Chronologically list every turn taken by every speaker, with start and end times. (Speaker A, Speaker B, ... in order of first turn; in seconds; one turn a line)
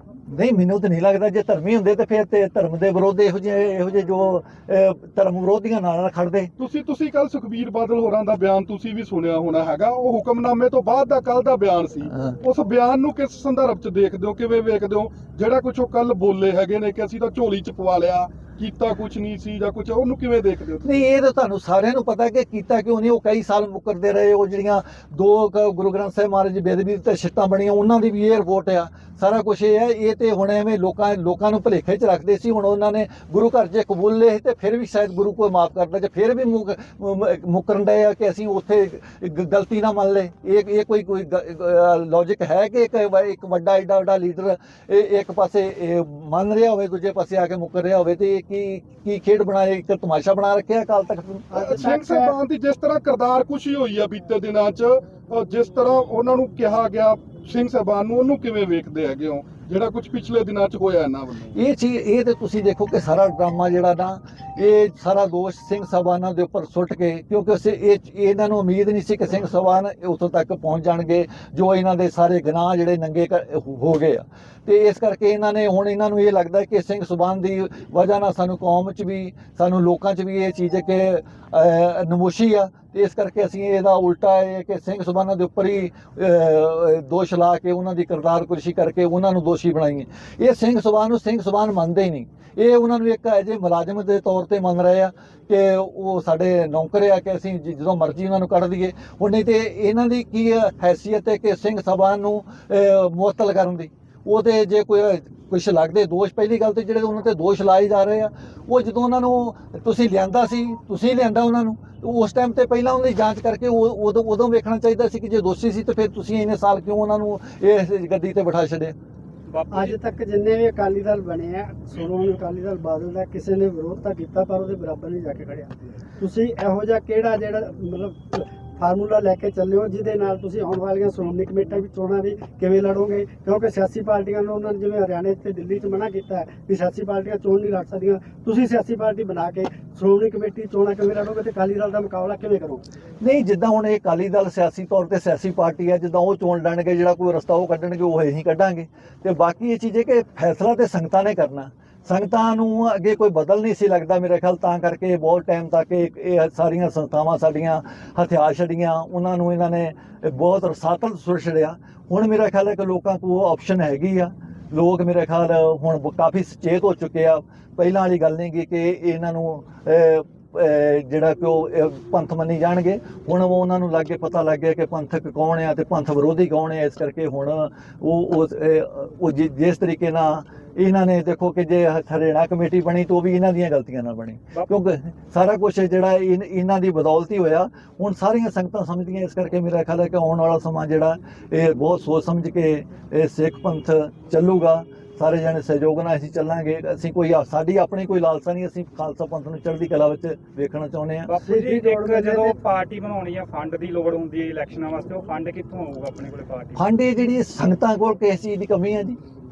Speaker A: 0.3-6.5
Speaker B: 6.6-20.9
Speaker A: 20.8-51.5
Speaker C: 51.5-52.3
Speaker B: 51.5-61.5
Speaker A: 61.5-118.9
Speaker D: 119.5-120.0
Speaker C: 119.7-142.8
Speaker A: 143.2-201.3
Speaker D: 201.3-206.8
Speaker C: 201.4-202.6
Speaker A: 206.7-209.2